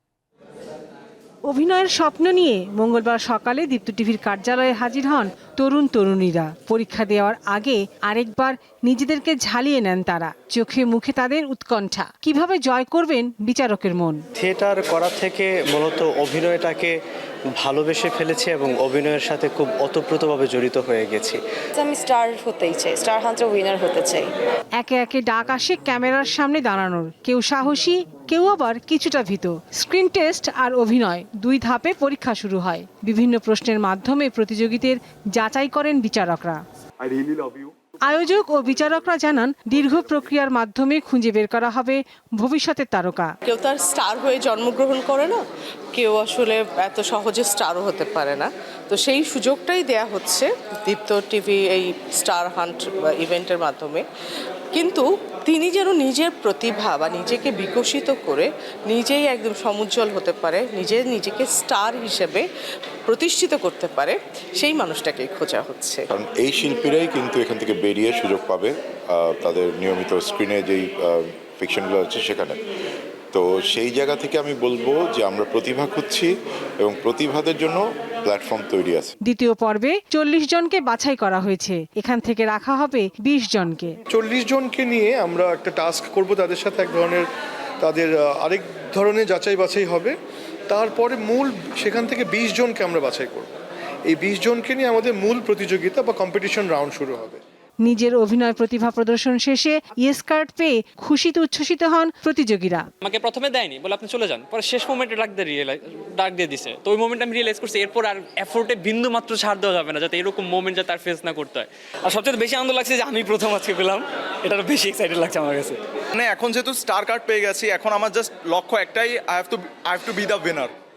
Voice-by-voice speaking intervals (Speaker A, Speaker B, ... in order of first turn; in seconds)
Speaker A: 1.5-14.2, 24.8-36.6, 38.0-43.3, 79.2-84.0, 97.8-102.9
Speaker B: 14.3-17.0, 17.5-21.4
Speaker C: 21.8-24.3
Speaker D: 37.1-37.7, 116.1-120.7
Speaker E: 43.5-45.4, 45.9-54.0, 54.7-62.5, 63.1-66.1
Speaker F: 66.1-72.6, 73.3-79.2
Speaker G: 84.1-87.3, 87.8-90.2, 90.7-93.5, 94.1-97.4
Speaker H: 103.1-115.8